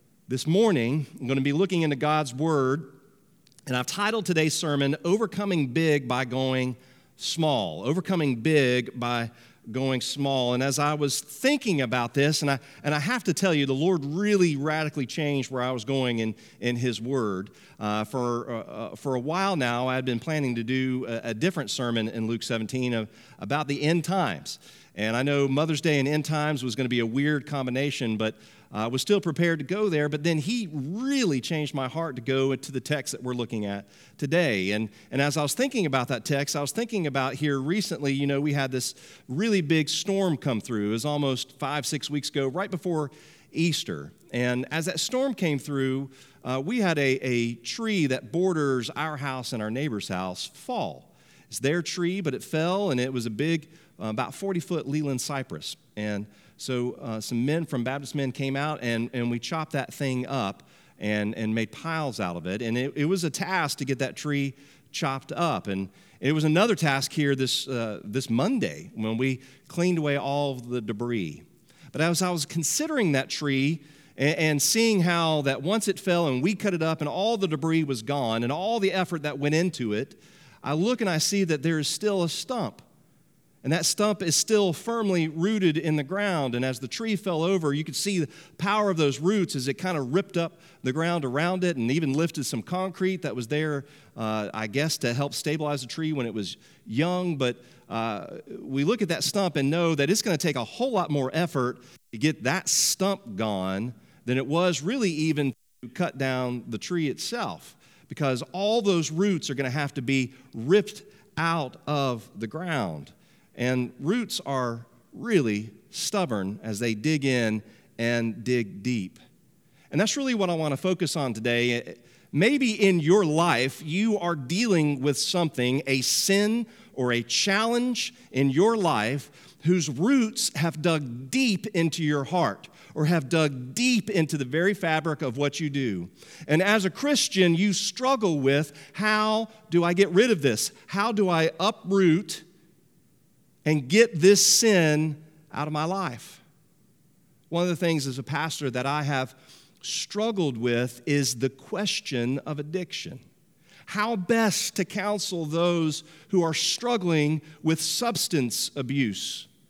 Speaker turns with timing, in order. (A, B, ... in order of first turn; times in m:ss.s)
0:00.3-0:02.9 A
0:03.7-1:22.8 A
1:23.6-1:59.2 A
1:59.9-2:22.4 A
2:23.6-2:26.4 A
2:27.5-2:33.2 A
2:33.9-2:39.5 A